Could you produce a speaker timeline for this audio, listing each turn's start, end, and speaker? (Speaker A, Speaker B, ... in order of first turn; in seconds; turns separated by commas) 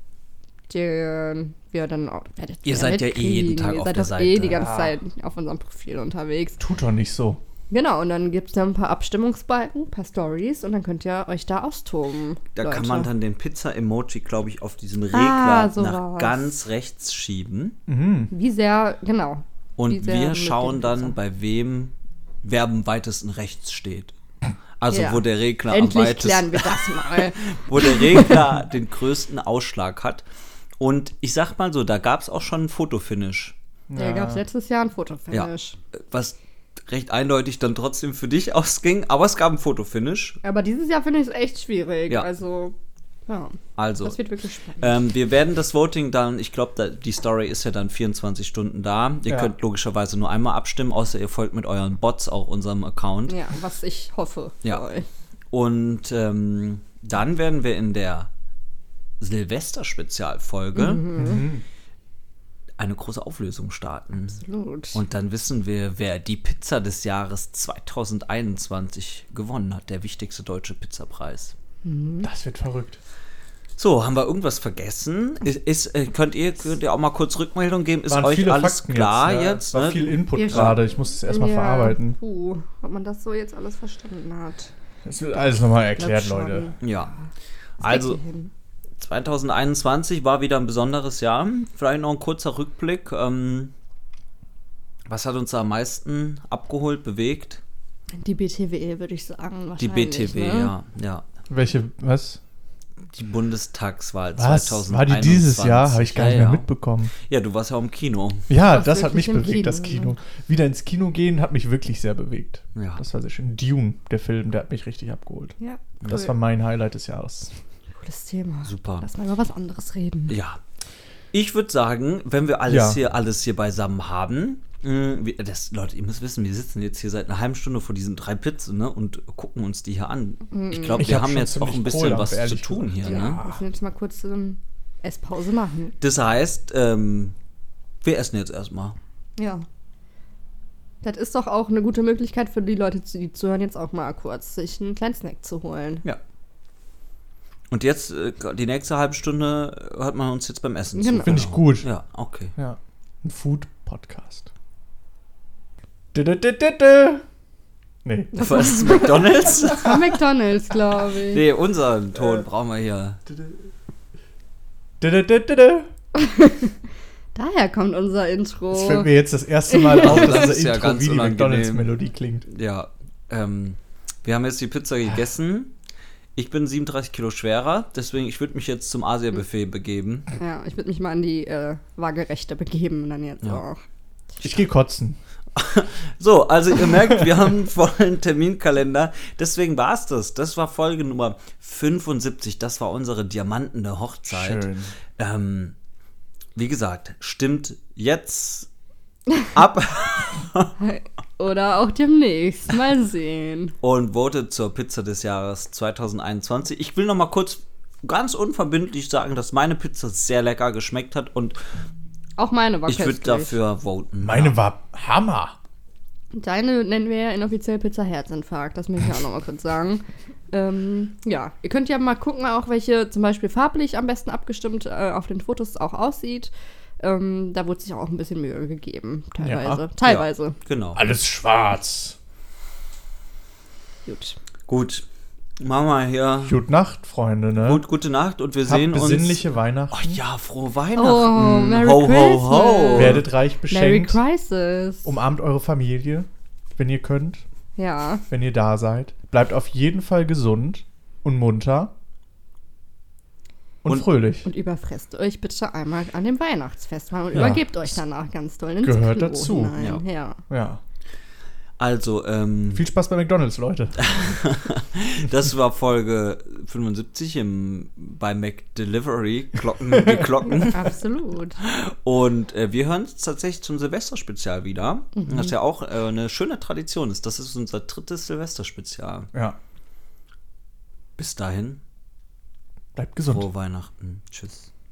Speaker A: 0.7-6.6, Speaker B: 2.6-4.7, Speaker C: 4.5-5.0, Speaker C: 6.6-7.4, Speaker A: 7.7-13.1, Speaker B: 12.5-17.8, Speaker A: 15.1-16.6, Speaker C: 17.9-18.3, Speaker A: 18.3-21.1, Speaker B: 19.8-24.1, Speaker B: 24.8-30.2, Speaker A: 24.9-28.4, Speaker B: 30.8-33.5, Speaker C: 33.9-34.4, Speaker A: 34.0-35.8, Speaker B: 35.3-40.4, Speaker A: 40.4-42.7, Speaker A: 43.3-45.0, Speaker B: 43.8-44.2, Speaker B: 44.8-53.4, Speaker C: 49.3-49.5, Speaker A: 53.3-55.0, Speaker B: 55.5-58.3, Speaker B: 59.2-61.0, Speaker A: 60.7-61.5, Speaker C: 61.1-61.6, Speaker B: 62.8-64.4, Speaker A: 64.4-65.0, Speaker B: 64.9-71.5, Speaker A: 71.8-72.3, Speaker C: 72.2-73.0, Speaker B: 73.8-80.8, Speaker C: 78.1-82.2, Speaker A: 80.3-84.7, Speaker C: 85.0-86.7, Speaker A: 86.0-87.2, Speaker B: 86.8-87.1, Speaker B: 87.8-88.2, Speaker A: 87.8-88.5, Speaker B: 89.0-93.7, Speaker B: 95.1-97.6, Speaker A: 98.2-100.7, Speaker B: 99.8-101.2, Speaker C: 101.5-102.4, Speaker B: 103.1-108.5, Speaker C: 104.4-107.1, Speaker C: 108.5-115.5, Speaker A: 108.6-110.1, Speaker B: 112.7-113.0, Speaker A: 115.6-116.3, Speaker B: 116.0-116.3, Speaker C: 116.1-117.5, Speaker A: 117.9-120.3, Speaker B: 118.6-119.1, Speaker B: 120.3-120.6, Speaker B: 121.3-133.4, Speaker C: 122.7-123.0, Speaker A: 130.5-131.1, Speaker C: 131.0-133.6, Speaker A: 133.0-135.9, Speaker B: 136.0-137.3, Speaker B: 138.0-139.0, Speaker A: 139.4-139.7, Speaker A: 141.0-146.0, Speaker B: 147.7-152.5, Speaker A: 150.9-151.5, Speaker C: 151.2-151.9, Speaker C: 152.6-154.5, Speaker C: 156.1-157.2, Speaker C: 158.0-158.3, Speaker B: 158.3-160.0, Speaker A: 158.3-161.4, Speaker B: 161.3-163.2, Speaker C: 163.3-163.5, Speaker C: 165.0-165.9, Speaker A: 166.1-166.7, Speaker A: 167.3-169.1, Speaker C: 168.7-172.4, Speaker A: 169.7-170.4, Speaker B: 170.0-171.9, Speaker B: 172.4-175.7, Speaker B: 176.3-180.3, Speaker A: 180.4-183.8, Speaker C: 184.4-185.2, Speaker B: 185.5-195.7, Speaker C: 194.3-194.9, Speaker B: 196.5-198.7, Speaker B: 199.5-200.7, Speaker A: 200.8-203.7, Speaker B: 203.8-211.6, Speaker A: 212.4-213.6, Speaker B: 212.9-214.6, Speaker C: 214.2-215.6, Speaker A: 216.3-230.6, Speaker C: 229.4-229.8, Speaker B: 230.0-231.0, Speaker C: 230.9-232.2, Speaker A: 234.1-234.3, Speaker B: 234.7-235.0, Speaker B: 235.6-236.6, Speaker C: 236.4-237.8, Speaker B: 237.6-243.2, Speaker C: 238.7-240.2, Speaker A: 240.9-245.1, Speaker C: 242.9-244.2, Speaker C: 245.0-247.4, Speaker A: 247.8-248.2, Speaker C: 248.3-251.9, Speaker C: 253.8-254.5, Speaker A: 254.4-260.4, Speaker C: 257.3-258.0, Speaker C: 258.8-259.8, Speaker C: 260.5-260.8, Speaker B: 261.8-262.8, Speaker C: 262.7-264.0, Speaker B: 264.0-270.9, Speaker C: 269.9-270.3, Speaker A: 270.7-271.6, Speaker B: 271.6-279.3, Speaker A: 275.2-275.5, Speaker B: 281.2-281.8, Speaker C: 282.9-283.4, Speaker B: 283.2-284.7